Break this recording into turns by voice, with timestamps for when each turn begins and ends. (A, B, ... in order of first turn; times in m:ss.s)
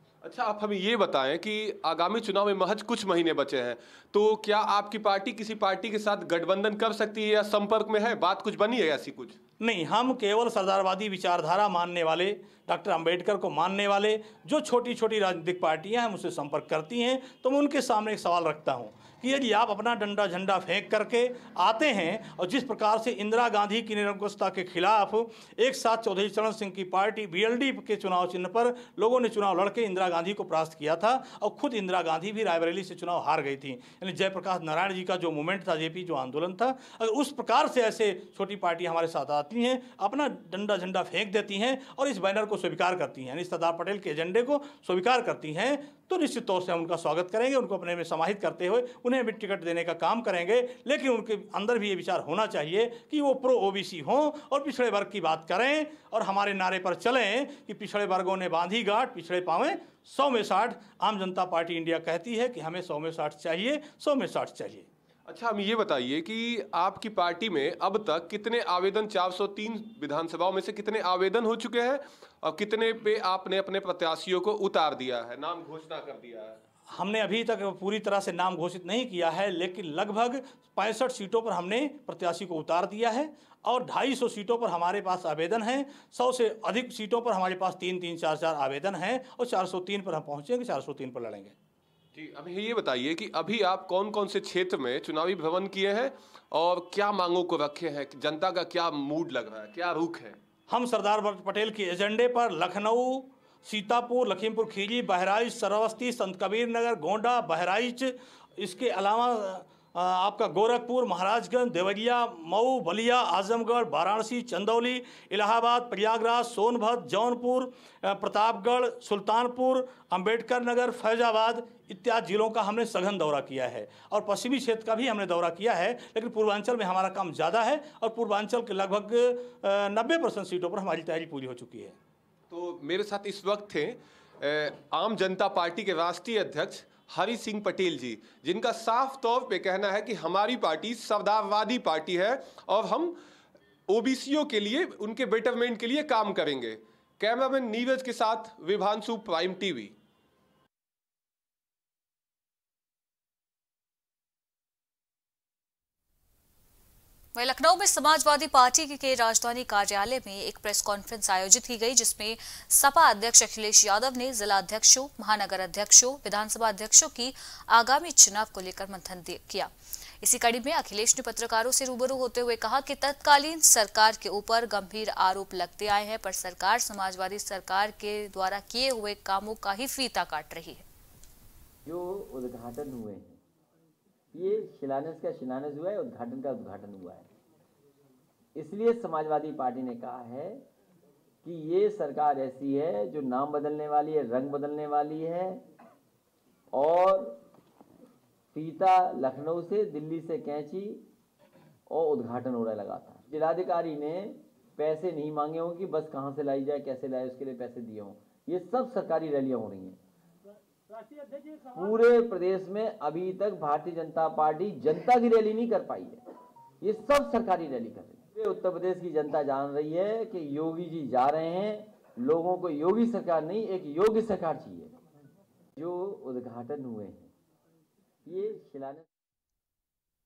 0:00.2-0:09.4 A
0:09.6-1:04.9 B
1:05.3-1:16.6 A
1:16.9-1:31.5 B
1:32.1-1:40.4 A
1:40.7-2:12.0 B
2:12.5-2:23.2 A
2:23.9-2:29.9 A
2:37.4-3:00.8 C
3:01.9-3:03.4 D
3:04.3-3:07.3 D
3:08.6-3:10.6 D
3:11.4-3:15.6 D
3:16.7-3:17.4 D
3:18.5-3:21.0 D
3:21.9-3:30.0 D
3:31.7-3:36.2 D
3:36.8-3:45.0 D
3:45.8-3:47.3 D
3:48.3-3:49.0 D